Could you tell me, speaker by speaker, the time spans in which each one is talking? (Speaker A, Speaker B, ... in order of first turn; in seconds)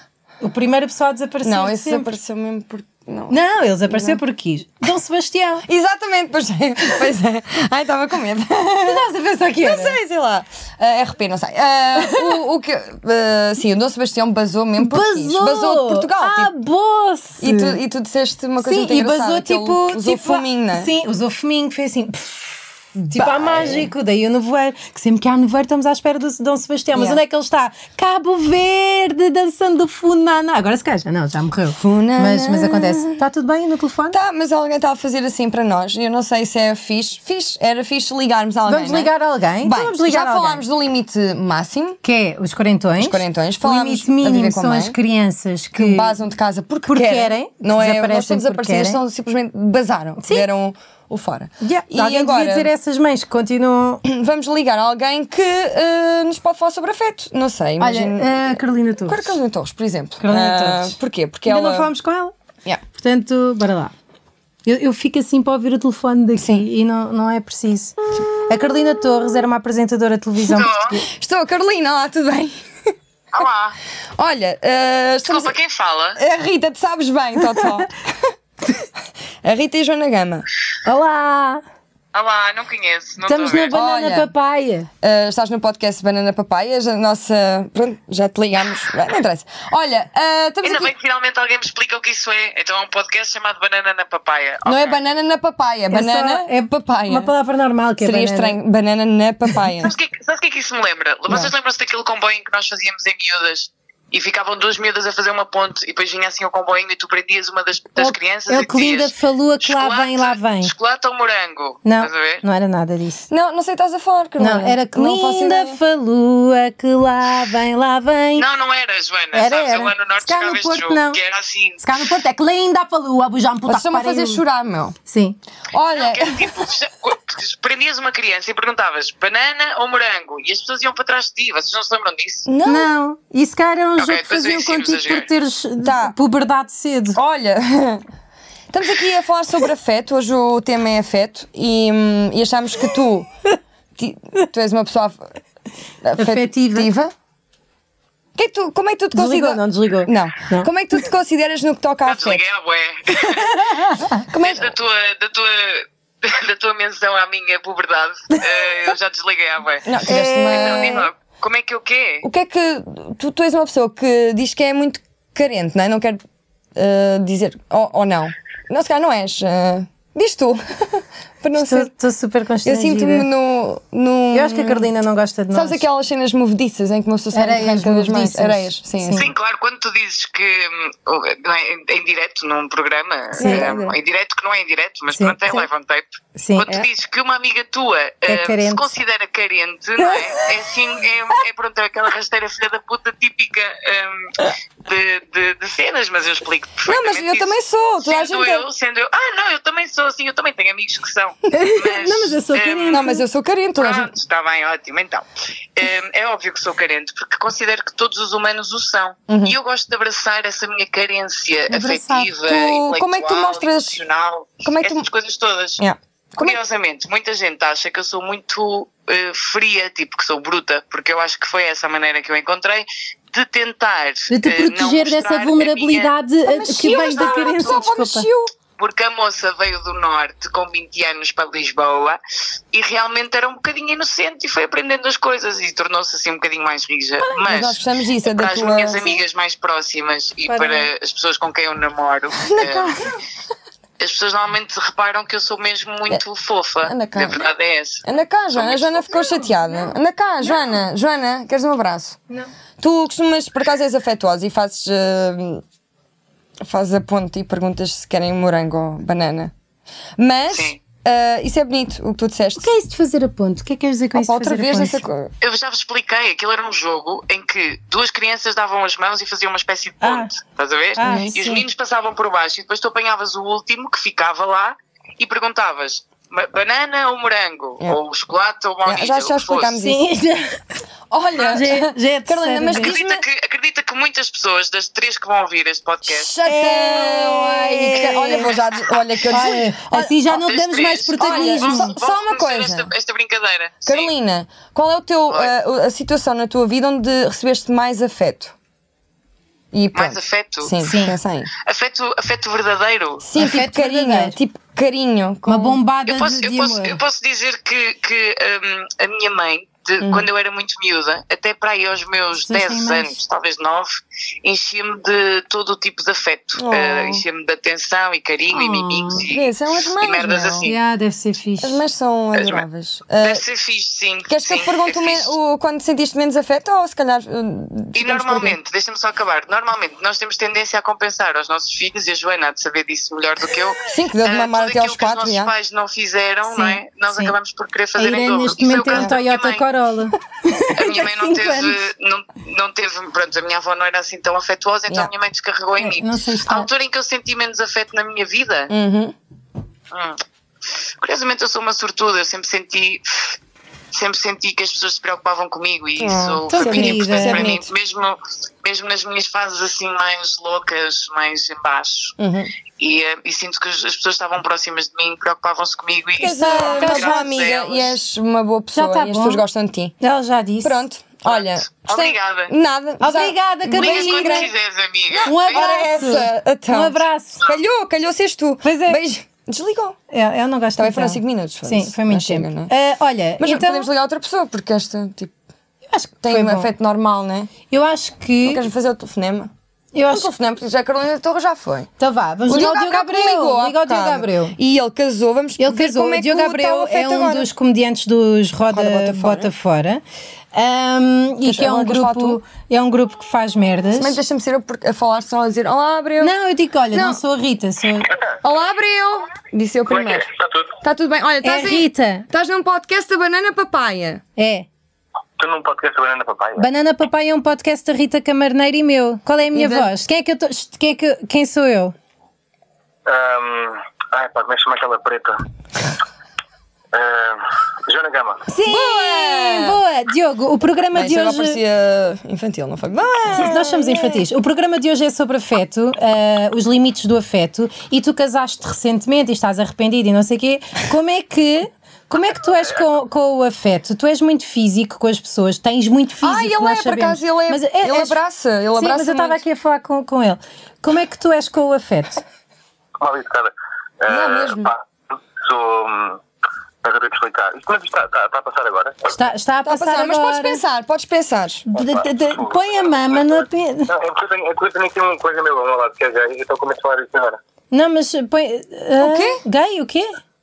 Speaker A: 0.4-2.1, 3.3-5.6, 8.6-10.0, 11.9-12.4, 14.8-17.8, 18.6-34.2, 38.6-40.6, 42.0-46.1, 46.9-49.0, 50.2-50.5, 51.6-54.0, 57.8-59.4, 60.2-62.3, 62.9-63.9, 64.6-71.0, 80.8-81.6, 83.2-84.9, 95.9-98.6, 108.0-110.7, 111.8-113.2, 114.4-118.5, 119.3-121.2, 121.8-124.4, 125.0-125.4, 132.6-137.2, 146.2-146.9, 149.1-150.7, 153.3-154.2, 160.1-161.0, 171.5-173.3, 174.3-175.8, 177.3-179.3, 183.4-183.7, 185.1-185.6, 186.4-186.7, 188.2-188.9, 190.0-190.3, 201.5-203.2, 211.7-212.3, 224.3-228.3, 240.5-240.9, 262.6-265.0, 270.0-270.3, 271.0-271.6, 279.8-280.8, 281.5-282.9, 286.4-288.5, 289.3-291.9, 300.8-301.1, 303.4-304.4, 305.5-307.0, 312.4-313.1, 318.5-319.3, 320.6-321.8, 336.5-337.3, 338.0-341.8, 345.8-346.7, 356.5-357.6, 366.3-367.3, 368.7-369.4, 370.0-370.8, 373.0-374.5, 375.2-377.5, 378.6-379.0, 380.1-383.9, 385.9-386.7, 387.7-388.7, 389.9-390.3, 392.0-394.6, 395.6-404.2, 406.2-408.1, 411.4-412.3, 414.4-414.7, 416.6-421.9, 428.5-431.6, 433.3-448.2, 448.8-452.2, 459.1-460.6, 461.7-463.9, 467.7-470.2
Speaker B: 1.4-4.2, 5.7-9.1, 9.6-16.5, 17.4-20.9, 22.9-23.9, 26.9-27.2, 31.7-33.2, 34.1-42.0, 43.0-45.0, 45.8-52.7, 54.0-61.9, 66.4-66.6, 71.0-72.9, 74.2-75.5, 76.2-78.3, 79.4-80.4, 83.7-84.3, 85.0-90.9, 94.6-97.3, 98.0-99.9, 113.3-115.8, 123.7-125.0, 125.7-126.7, 132.4-132.9, 135.8-136.1, 137.1-138.0, 138.7-143.3, 144.0-145.3, 146.0-147.1, 148.3-152.4, 154.3-154.7, 159.8-161.1, 162.2-166.2, 166.7-171.9, 172.6-174.9, 175.5-179.3, 183.4-183.9, 196.9-198.6, 202.9-204.1, 209.3-209.5, 212.4-214.0, 214.6-215.1, 215.8-216.6, 226.4-228.5, 237.4-239.2, 242.4-243.2, 246.8-247.5, 248.0-252.2, 252.8-255.6, 256.6-259.5, 260.2-262.7, 264.1-265.3, 271.0-271.6, 278.9-280.0, 281.1-283.2, 286.0-290.1, 291.2-292.9, 293.8-298.5, 299.7-301.5, 303.2-305.8, 310.0-310.3, 316.6-317.2, 319.3-320.7, 321.6-323.4, 324.3-328.6, 333.8-335.5, 348.7-349.1, 356.0-357.7, 362.2-362.5, 366.2-369.9, 370.6-374.5, 375.1-380.0, 380.8-382.7, 383.4-385.3, 386.2-387.5, 388.4-389.5, 390.0-391.9, 392.5-397.5, 398.7-399.5, 401.4-402.4, 404.0-406.3, 406.9-407.2, 408.4-414.2, 419.5-419.9, 428.6-429.8, 430.9-434.2, 446.2-449.4, 454.1-454.7, 459.6-461.6, 469.0-469.4
Speaker C: 70.5-71.0, 73.3-73.8, 75.3-76.2, 82.1-83.8, 90.6-95.0, 99.8-112.4, 118.3-122.0, 125.9-132.5, 134.0-135.3, 152.1-162.2, 179.1-203.1, 203.8-215.8, 216.4-226.1, 228.8-232.2, 232.7-243.0, 244.0-249.4, 260.5-260.8, 265.4-279.8, 282.7-286.3, 290.3-294.1, 299.9-300.7, 301.5-303.2, 306.1-313.9, 314.4-320.8, 322.3-322.6, 323.2-325.3, 327.9-339.6, 340.8-348.7, 349.9-350.2, 351.0-353.4, 353.9-362.1, 362.8-368.0, 371.2-372.5, 373.7-375.8
Speaker D: 409.9-410.8, 415.4-416.6, 423.1-425.4, 426.9-428.4, 453.0-456.2, 456.8-459.1, 461.7-467.4